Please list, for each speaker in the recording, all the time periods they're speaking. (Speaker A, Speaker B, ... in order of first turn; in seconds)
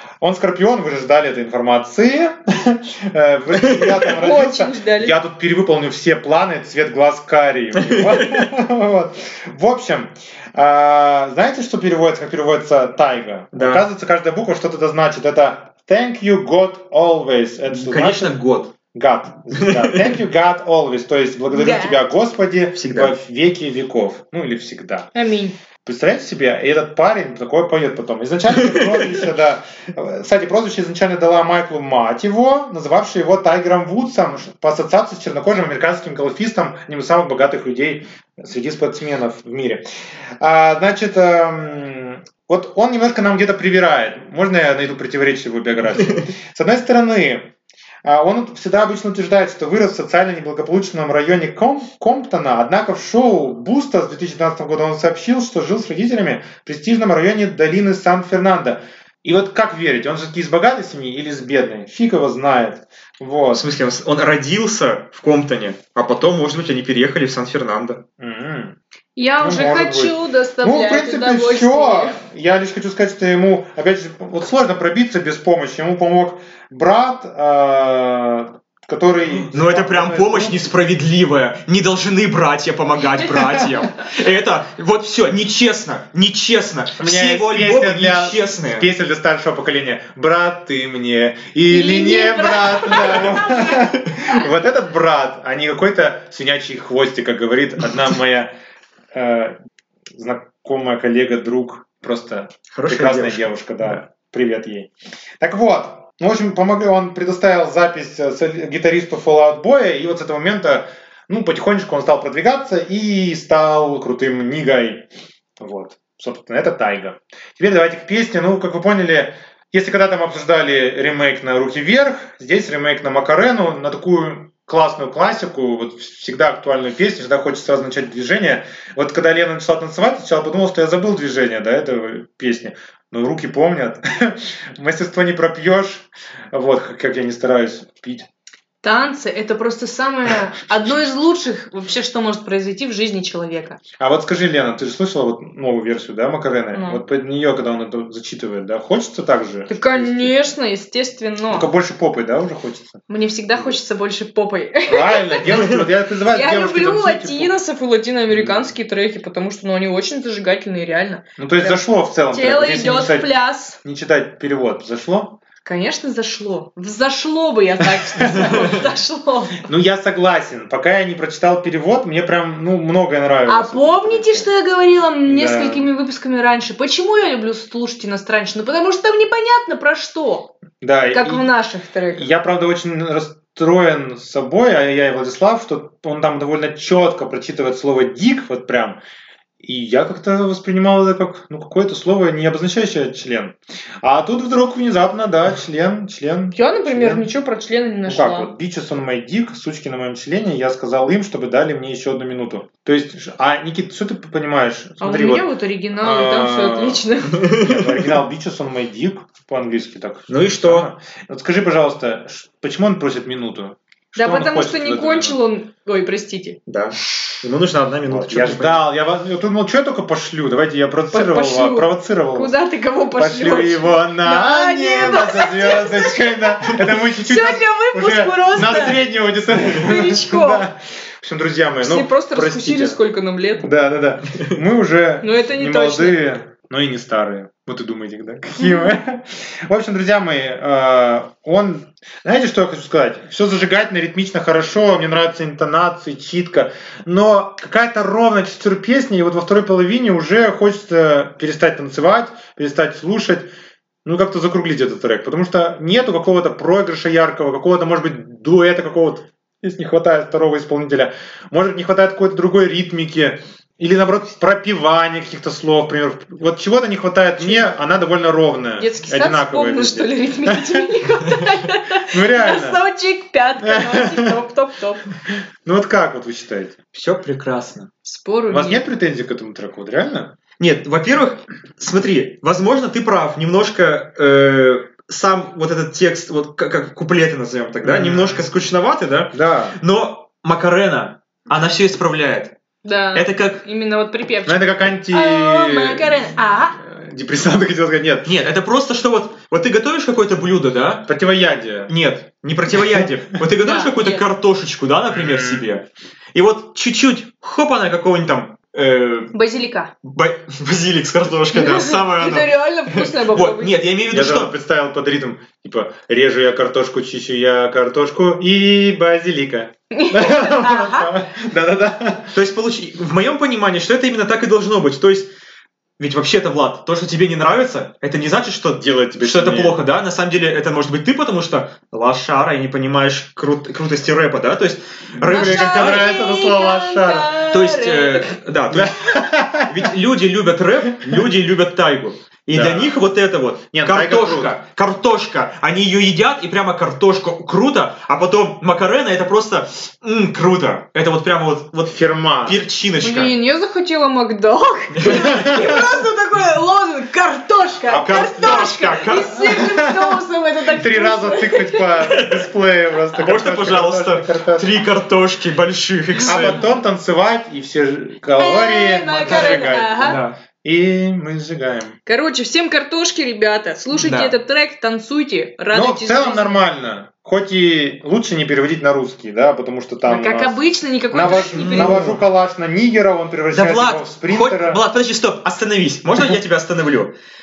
Speaker A: 0.2-18.4, 18.9-25.1, 25.9-39.9, 40.4-47.5, 48.0-63.6, 68.2-68.8, 69.4-80.6, 87.0-98.5, 99.1-99.5, 100.2-104.9, 105.4-115.1, 115.6-138.3, 144.0-150.3, 151.5-153.0, 154.9-157.5, 158.3-158.7, 161.4-163.3, 163.8-165.4, 167.8-168.9, 169.6-174.5, 175.3-175.9, 180.8-181.5, 182.1-189.0, 189.6-197.3, 198.1-215.4, 218.1-222.6, 223.1-233.0, 233.6-253.5, 254.1-270.9, 272.1-272.8, 273.6-274.4, 275.6-276.8, 278.5-280.3, 287.8-288.5, 289.3-289.8, 294.4-298.3, 301.1-301.9, 305.1-305.7, 314.1-322.3, 328.8-329.8, 335.2-337.3, 338.7-339.9, 342.5-343.0, 343.7-344.6, 351.9-352.6, 355.0-356.0, 357.9-358.7, 359.4-364.8, 366.2-372.0, 375.7-384.8
Speaker B: 4.1-5.2, 21.5-22.0, 25.1-25.6, 69.2-72.2, 91.7-94.5, 138.8-143.8, 146.7-147.0, 149.7-151.7, 153.1-163.8, 165.7-169.7, 173.5-180.5, 181.1-182.3, 196.5-198.5, 205.0-207.6, 214.2-216.6, 221.1-229.0, 229.7-230.7, 231.8-233.7, 235.2-236.2, 238.6-239.0, 267.4-267.7, 268.8-275.1, 278.1-278.8, 292.8-296.8, 303.6-304.3, 309.3-309.9, 311.5-313.9, 319.9-321.1, 335.2-338.4, 353.0-361.9, 366.2-366.7, 368.4-370.2, 372.1-376.6, 380.0-382.1
Speaker C: 7.8-8.3, 13.5-13.8, 17.7-18.7, 19.6-20.1, 22.7-23.1, 63.5-68.0, 79.2-88.9, 102.7-104.0, 207.5-208.0, 210.3-210.9, 216.7-218.8, 276.9-277.9, 280.6-292.5, 293.1-293.6, 298.2-301.1, 301.9-309.3, 310.0-314.5, 322.3-325.3, 326.0-336.1, 337.4-339.0, 339.6-353.3, 354.9-355.3, 357.9-359.6, 362.1-362.5, 363.1-366.6, 369.2-370.4, 373.9-374.4, 381.2-382.2, 383.5-387.1